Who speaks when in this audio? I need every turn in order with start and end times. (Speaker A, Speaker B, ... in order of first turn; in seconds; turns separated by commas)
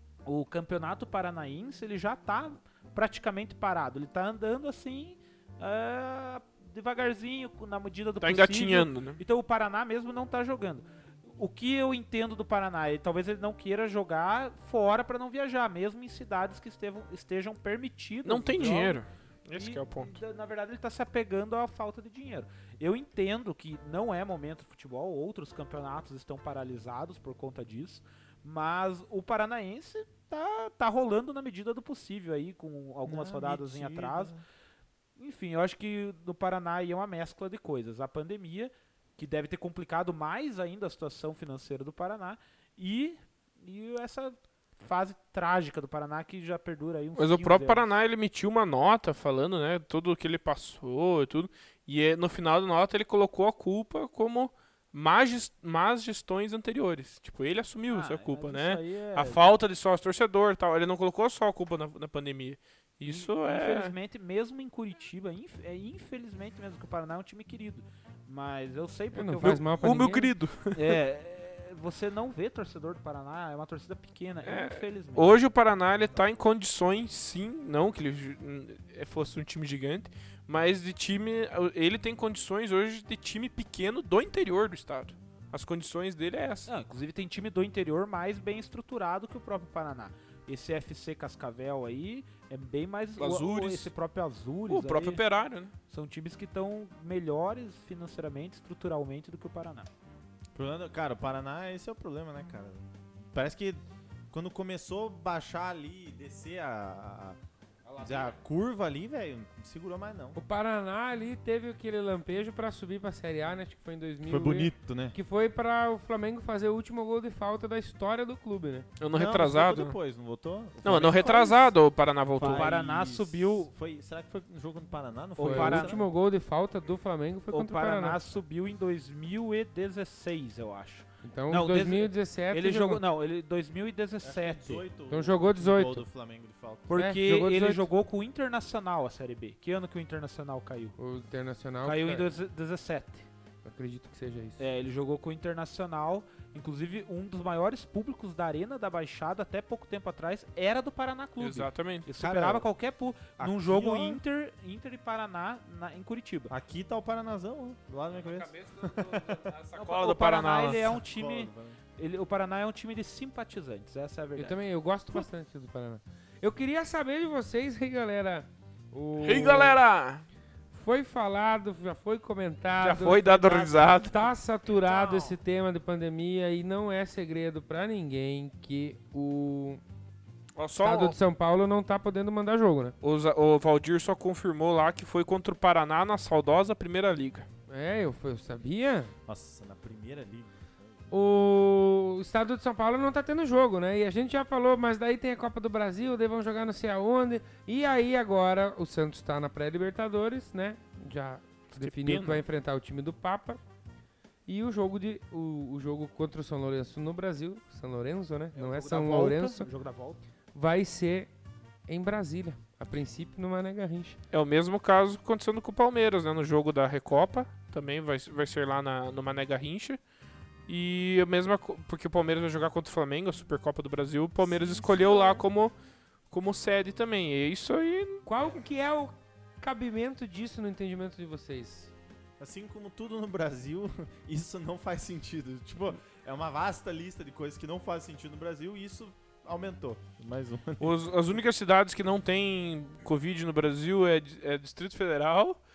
Speaker A: 0.2-34.3, Speaker B: 8.2-9.2, Speaker B: 18.2-20.2, Speaker C: 33.0-34.4, Speaker A: 35.2-47.9, Speaker B: 47.1-63.9, Speaker A: 57.9-59.4, Speaker A: 63.0-69.6, Speaker D: 69.1-70.3, Speaker B: 69.5-71.0, Speaker A: 70.7-75.4, Speaker B: 74.4-86.7, Speaker A: 86.7-95.2, Speaker B: 93.2-93.9, Speaker B: 94.7-95.7, Speaker A: 95.9-99.9, Speaker C: 100.5-107.4, Speaker C: 108.0-110.4, Speaker D: 110.3-118.9, Speaker C: 114.2-115.2, Speaker B: 119.0-120.0, Speaker C: 119.1-121.7, Speaker B: 120.8-122.7, Speaker A: 121.2-121.6, Speaker C: 122.3-126.0, Speaker A: 122.4-123.7, Speaker A: 125.4-126.0, Speaker D: 125.4-128.2, Speaker A: 127.5-134.8, Speaker D: 131.2-133.0, Speaker C: 134.2-137.0, Speaker D: 135.1-136.0, Speaker A: 136.9-140.9, Speaker D: 136.9-137.8, Speaker D: 141.0-142.3, Speaker A: 141.8-143.3, Speaker D: 143.6-144.6, Speaker A: 144.6-156.5, Speaker B: 151.4-152.1, Speaker C: 152.2-152.6, Speaker C: 153.4-154.2, Speaker C: 156.5-159.5, Speaker B: 158.2-160.9, Speaker A: 159.8-164.6, Speaker C: 160.8-161.8, Speaker D: 164.3-169.8, Speaker B: 169.2-170.2, Speaker D: 170.7-179.8, Speaker B: 172.8-174.1, Speaker A: 173.2-173.7, Speaker C: 174.7-175.4, Speaker B: 180.6-181.2, Speaker D: 180.8-182.9, Speaker B: 183.0-187.5, Speaker D: 187.7-189.1, Speaker C: 189.3-191.0, Speaker D: 191.1-203.6, Speaker B: 201.7-202.4, Speaker D: 204.5-209.7, Speaker A: 208.5-210.2, Speaker D: 210.5-211.3, Speaker D: 211.9-214.2, Speaker B: 214.3-220.0, Speaker B: 220.7-225.7, Speaker B: 226.3-228.2, Speaker D: 228.2-231.9, Speaker C: 232.4-241.0, Speaker B: 240.8-245.6